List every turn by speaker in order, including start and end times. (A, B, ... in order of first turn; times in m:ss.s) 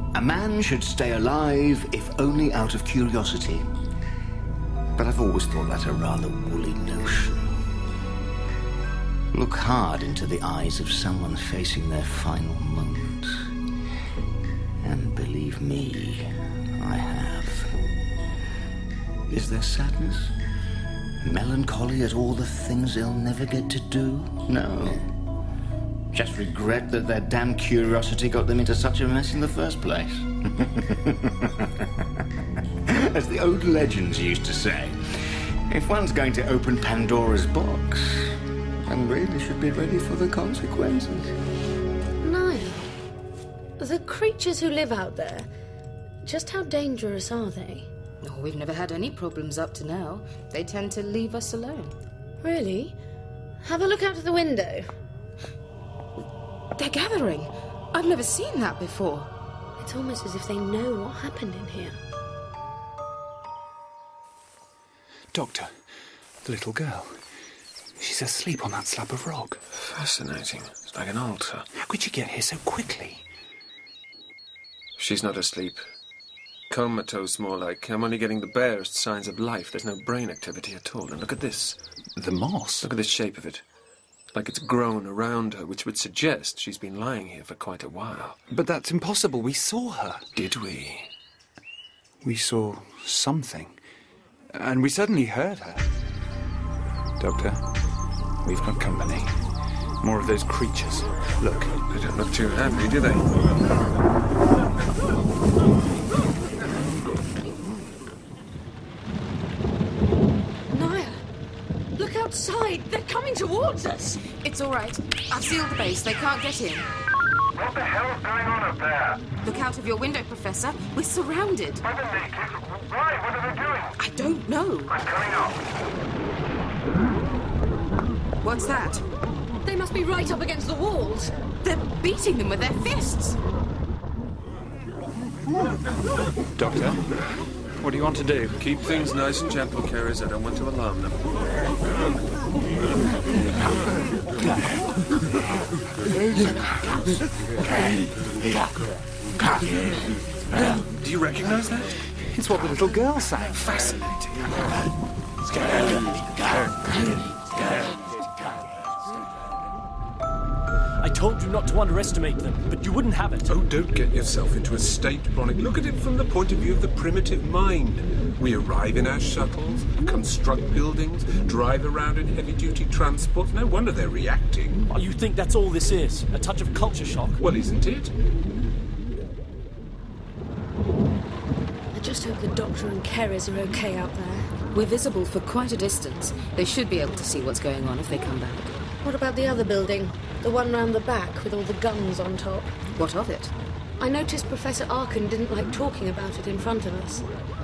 0:00.1-0:03.7 A
0:05.0-0:07.5 A
0:09.3-0:13.4 A
0:14.8-0:17.8 A
0:19.3-0:20.3 A
0:21.2-0:25.1 A
0:26.1-0:32.0 A
0:32.9-0:41.3 A
0:42.2-0:42.9 B
0:43.8-0:45.5 B
0:46.2-0:47.9 B
0:48.2-0:51.9 C
0:52.4-0:53.0 B
0:53.6-0:54.9 B
0:56.8-0:59.3 C
0:59.8-1:02.0 B
1:05.3-1:05.7 D
1:06.4-1:07.2 D
1:08.0-1:09.6 D
1:09.7-1:11.7 E
1:11.8-1:13.2 D
1:15.0-1:15.8 E
1:16.7-1:21.8 E
1:22.2-1:22.9 D
1:22.8-1:23.6 E
1:24.3-1:28.4 E
1:28.5-1:30.3 D
1:30.4-1:31.1 E
1:32.2-1:33.8 D
1:34.5-1:35.9 D
1:37.2-1:37.6 D
1:38.4-1:39.4 D
1:40.0-1:41.8 D
1:41.9-1:43.3 E
1:50.7-1:51.2 B
1:52.0-1:54.3 B
1:54.4-1:56.9 C
1:57.6-1:59.2 F
1:59.4-2:01.8 C
2:01.8-2:03.9 F
2:04.0-2:04.9 C
2:04.9-2:05.6 F
2:08.4-2:09.0 C
2:09.6-2:11.3 B
2:11.6-2:13.4 C
2:16.6-2:17.0 D
2:17.8-2:18.6 D
2:18.6-2:21.2 E
2:30.6-2:31.9 E
2:32.3-2:33.6 D
2:33.6-2:34.6 E
2:41.0-2:43.5 G
2:43.5-2:54.8 H
2:54.9-2:57.4 G
2:57.4-2:58.1 H
3:01.9-3:04.5 B
3:04.7-3:08.7 C
3:09.0-3:12.7 B
3:13.0-3:13.5 C
3:14.0-3:17.3 B